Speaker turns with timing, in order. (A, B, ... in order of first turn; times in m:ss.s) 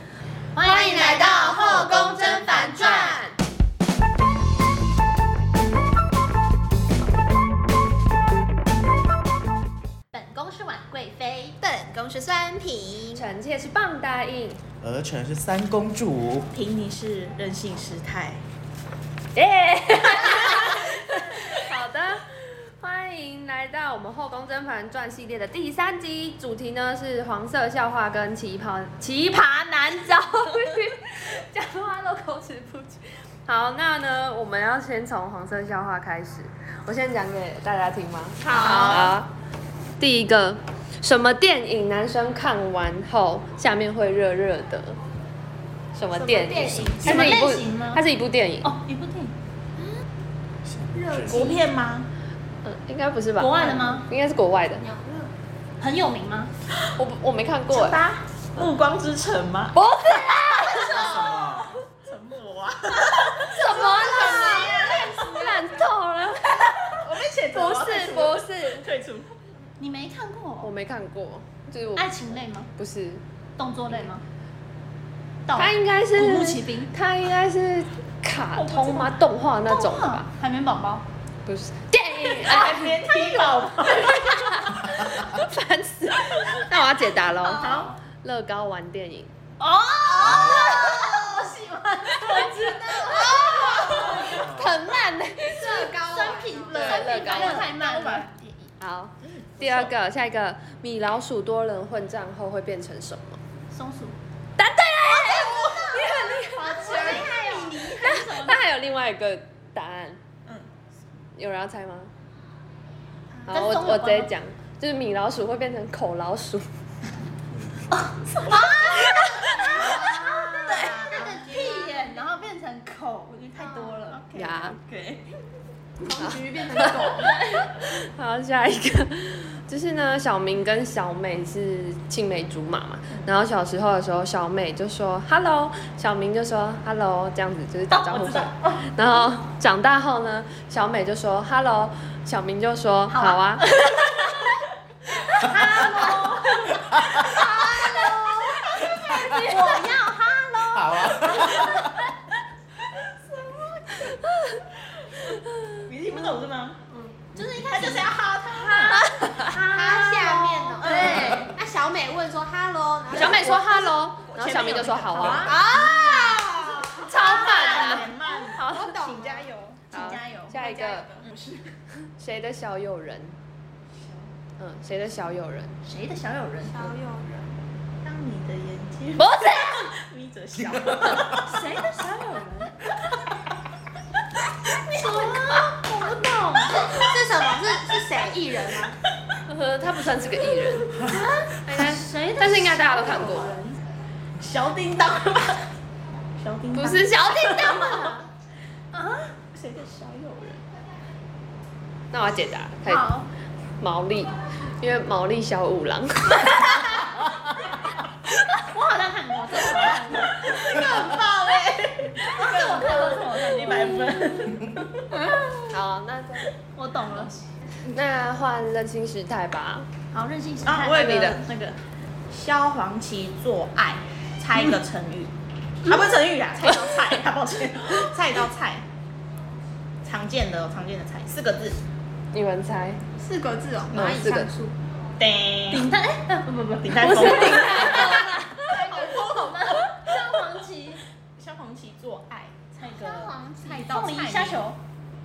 0:00.5-0:03.2 A
0:00.6-0:03.4 B
0:10.1-0:11.6 A
0:11.7-0:13.2 C
0:13.1-0:14.6 B
0:14.8-0:16.5 D
0:16.5-0:18.4 E
0:19.3-0:39.3 B
0:38.4-0:39.1 C
0:38.5-0:38.9 E
0:38.5-0:39.0 A
0:40.0-0:45.0 B
0:45.9-0:48.7 B
0:46.1-0:47.3 C
0:47.0-0:48.0 A
0:48.6-0:49.3 A
0:50.6-0:51.5 D
0:51.0-0:51.6 C
0:51.2-0:52.1 E
0:52.6-0:54.8 B
0:53.4-0:54.1 A
0:54.8-0:55.3 C
0:55.8-0:56.5 A
0:57.0-0:58.0 B
0:57.7-0:59.8 E
0:59.7-1:01.4 B
1:00.8-1:01.7 D
1:01.2-1:01.4 E
1:02.0-1:05.3 E
1:03.4-1:08.9 B
1:03.7-1:05.7 C
1:06.9-1:09.3 E
1:09.8-1:10.7 A
1:10.6-1:13.2 B
1:12.0-1:12.7 A
1:13.6-1:14.2 A
1:15.5-1:16.9 A
1:15.5-1:20.3 B
1:18.6-1:19.1 E
1:19.6-1:21.0 A
1:21.4-1:23.4 B
1:22.4-1:24.2 E
1:23.9-1:24.3 A
1:24.0-1:29.3 B
1:27.4-1:27.9 A
1:29.6-1:34.2 A
1:30.2-1:30.9 D
1:30.3-1:31.1 E
1:32.2-1:35.9 B
1:33.0-1:34.6 C
1:34.2-1:34.7 D
1:35.5-1:37.0 C
1:36.1-1:38.3 A
1:36.7-1:37.7 B
1:36.8-1:38.5 E
1:38.8-1:43.4 B
1:43.7-1:44.2 A
1:44.6-1:47.2 B
1:45.3-1:48.0 E
1:45.7-1:45.9 C
1:46.7-1:48.6 A
1:46.7-1:48.0 C
1:48.0-1:50.2 B
1:51.4-1:52.1 B
1:53.4-1:56.6 B
1:53.5-1:54.3 A
1:57.9-2:04.2 A
1:58.5-2:00.3 B
1:59.6-2:00.2 C
1:59.9-2:01.3 E
2:01.1-2:02.0 C
2:03.6-2:04.0 C
2:04.1-2:05.2 E
2:04.3-2:04.8 B
2:06.0-2:07.4 C
2:06.1-2:24.1 B
2:06.7-2:07.3 A
2:17.9-2:19.2 A
2:23.1-2:24.6 A
2:25.2-2:32.0 A
2:25.8-2:26.1 B
2:28.9-2:29.4 D
2:30.7-2:32.0 D
2:34.0-2:34.6 B
2:35.9-2:36.8 E
2:37.3-2:41.5 A
2:37.7-2:39.0 E
2:38.9-2:39.6 B
2:39.6-2:44.0 C
2:40.2-2:41.4 E
2:43.1-2:45.6 B
2:44.3-2:49.5 E
2:45.1-2:45.5 A
2:45.4-2:51.7 C
2:47.0-2:48.9 B
2:49.9-2:51.1 B
2:49.9-2:50.5 A
2:52.2-2:53.4 B
2:54.6-2:55.8 B
2:55.8-2:56.9 A
2:56.6-2:57.6 C
2:58.0-3:01.5 E
2:59.2-3:00.0 B
3:00.7-3:01.3 D
3:01.1-3:01.3 B
3:01.4-3:02.9 A
3:04.8-3:06.9 A
3:05.0-3:05.7 E
3:06.7-3:08.9 C
3:09.5-3:11.1 B
3:10.9-3:13.8 A
3:11.6-3:13.5 B
3:14.4-3:15.7 E
3:16.4-3:17.9 E
3:16.7-3:18.1 B
3:17.2-3:18.2 A
3:18.9-3:19.3 A
3:19.5-3:20.6 E
3:22.1-3:23.1 B
3:22.8-3:23.3 A
3:23.8-3:27.1 B
3:28.5-3:31.1 A
3:29.7-3:35.3 E
3:32.2-3:34.6 A
3:35.7-3:36.4 B
3:36.8-3:37.4 A
3:37.9-3:39.8 B
3:40.1-3:41.4 A
3:40.6-3:41.7 E
3:40.8-3:41.4 B
3:42.3-3:45.3 E
3:45.8-3:48.8 E
3:50.0-3:51.8 E
3:52.3-3:53.0 B
3:53.2-3:54.7 C
3:53.9-3:54.5 B
3:55.2-3:55.9 E
3:55.7-4:01.0 A
3:56.8-3:59.7 E
3:57.0-3:58.8 B
3:57.7-3:59.6 C
4:01.4-4:04.6 E
4:02.9-4:04.4 C
4:03.6-4:04.8 A